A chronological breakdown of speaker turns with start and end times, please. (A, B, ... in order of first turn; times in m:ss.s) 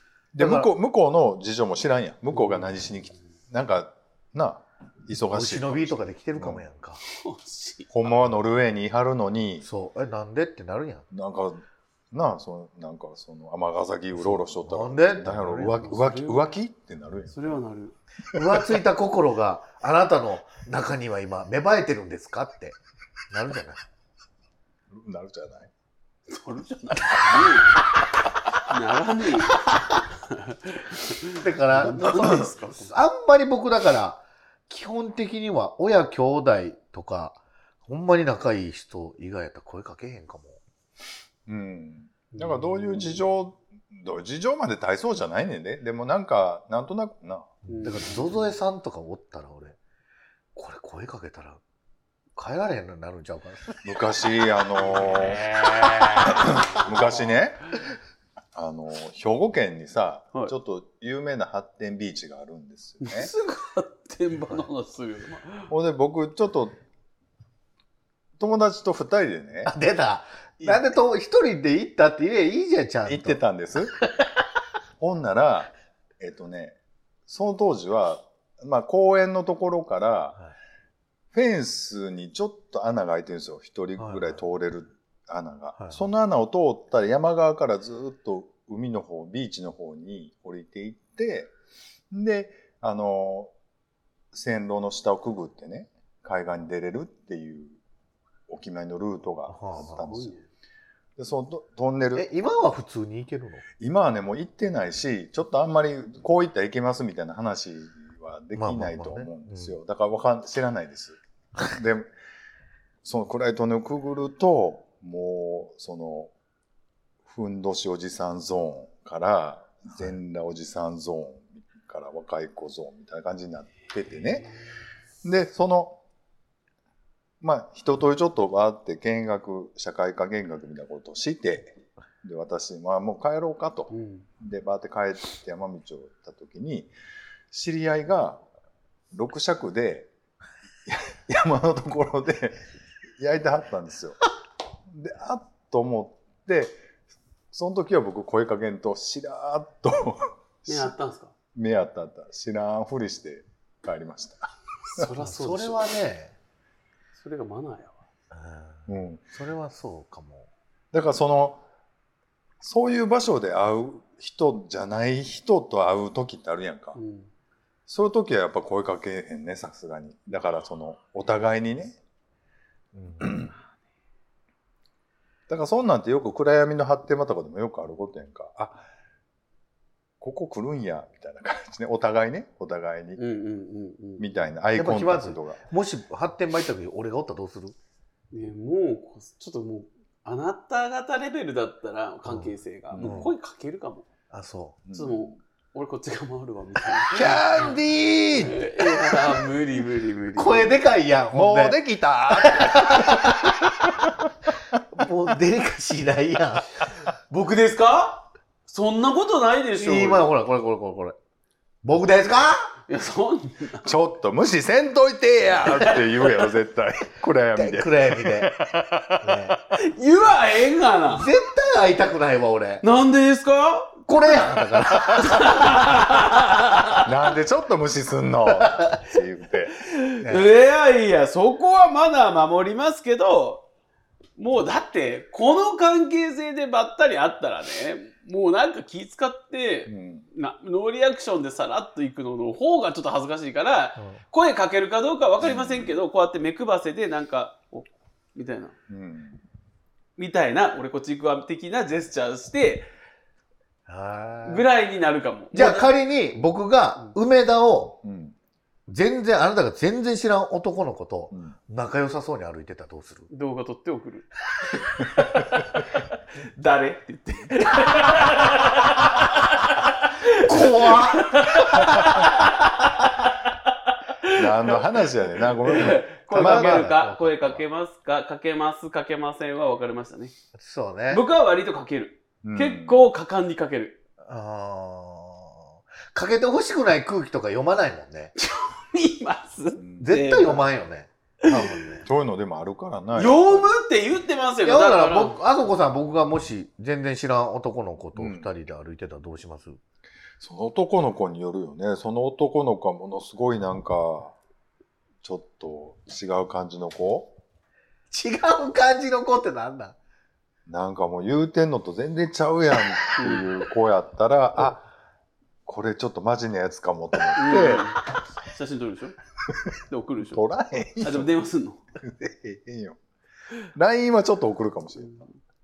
0:00.3-0:06.6 A
0:00.4-0:00.7 B
0:05.3-0:07.0 B
0:07.1-0:07.9 C
0:07.9-0:09.7 A
0:09.6-0:11.0 B
0:11.1-0:17.4 A
0:14.1-0:15.9 B
0:15.8-0:16.6 C
0:17.3-0:18.0 C
0:18.3-0:22.8 B
0:18.4-0:18.6 A
0:23.3-0:23.8 B
0:24.9-0:25.7 A
0:26.3-0:27.8 C
0:28.7-0:29.6 C
0:30.3-0:32.9 C
0:31.4-0:40.6 B
0:41.5-0:47.6 A
0:42.3-0:43.2 C
0:47.7-0:48.3 C
0:47.7-0:49.8 B
0:50.6-0:51.6 B
0:52.4-0:53.8 B
0:53.8-0:55.6 A
0:55.5-0:56.8 C
0:55.6-0:56.6 B
0:56.2-0:57.7 A
0:58.6-1:03.3 A
1:03.0-1:05.7 C
1:05.7-1:06.8 A
1:08.4-1:09.8 A
1:09.7-1:13.4 B
1:10.6-1:10.9 A
1:13.0-1:14.0 A
1:14.0-1:14.3 B
1:15.0-1:16.8 A
1:17.3-1:20.4 A
1:21.3-1:31.5 A
1:24.0-1:24.4 B
1:32.1-1:33.5 A
1:34.3-1:37.8 A
1:38.5-1:40.4 A
1:39.5-1:40.1 B
1:40.0-1:40.5 C
1:41.2-1:42.3 A
1:42.2-1:43.6 B
1:43.8-1:52.1 A
1:48.6-1:49.7 B
1:53.0-1:56.3 A
1:57.3-2:04.5 A
2:05.2-2:06.0 A
2:07.4-2:16.9 A
2:13.9-2:14.3 C
2:17.5-2:18.4 A
2:19.1-2:20.1 A
2:20.9-2:22.6 A
2:23.2-2:24.2 A
2:24.9-2:26.8 A
2:27.5-2:30.9 A
2:30.7-2:31.3 C
2:31.5-2:35.0 A
2:34.9-2:35.9 C
2:35.2-2:36.4 B
2:37.2-2:38.0 C
2:38.3-2:40.5 B
2:38.9-2:39.2 A
2:40.9-2:41.6 A
2:42.6-2:47.0 A
2:47.0-2:47.3 C
2:47.9-2:52.0 A
2:52.9-2:53.4 B
2:53.2-2:53.5 A
2:55.5-2:58.8 A
3:00.2-3:03.2 A
3:03.2-3:04.3 C
3:04.2-3:05.6 A
3:04.8-3:07.8 B
3:08.3-3:14.1 C
3:12.3-3:13.3 B
3:12.9-3:13.3 A
3:14.3-3:14.8 B
3:14.9-3:15.4 A
3:14.9-3:17.8 C
3:17.1-3:19.3 B
3:17.2-3:17.8 A
3:18.4-3:20.8 C
3:20.4-3:23.7 B
3:21.3-3:24.1 A
3:24.9-3:26.7 B
3:27.3-3:30.3 C
3:29.8-3:31.2 B
3:31.8-3:32.7 B
3:32.9-3:33.9 C
3:33.8-3:39.4 A
3:35.7-3:36.0 C
3:37.6-3:38.5 B
3:39.2-3:39.6 B
3:39.7-3:41.3 C
3:41.1-3:42.8 B
3:42.8-3:44.1 C
3:44.1-3:45.7 B
3:45.1-3:47.0 C
3:47.0-3:49.8 A
3:48.6-3:49.0 B
3:49.9-3:53.6 C
3:50.2-3:50.5 B
3:54.4-4:08.8 C
3:59.9-4:00.2 A
4:05.4-4:06.0 A
4:08.9-4:09.4 A
4:10.2-4:12.9 C
4:13.9-4:14.6 B
4:14.4-4:15.9 C
4:15.5-4:18.0 B
4:18.0-4:18.4 A
4:18.9-4:23.3 B
4:21.3-4:21.6 A
4:23.3-4:35.0 C
4:30.3-4:32.5 B
4:34.3-4:36.9 A
4:35.6-4:40.3 C
4:36.3-4:37.6 B
4:40.6-4:41.2 B
4:41.1-4:44.0 C
4:42.4-4:43.0 A
4:44.2-4:48.3 B
4:48.4-4:50.6 C
4:49.8-4:50.2 A
4:50.0-4:52.1 B
4:52.0-4:53.7 A
4:53.2-4:55.4 C
4:54.6-4:59.8 B
4:58.2-4:58.5 A
5:00.4-5:04.4 A
5:05.2-5:07.4 A
5:08.1-5:10.0 B
5:10.7-5:14.8 A
5:13.2-5:13.5 C
5:15.7-5:17.9 A
5:17.4-5:19.2 C
5:17.5-5:17.8 B
5:19.9-5:20.4 C
5:20.3-5:21.3 A
5:21.0-5:21.8 C
5:22.0-5:23.0 A
5:23.7-5:25.2 A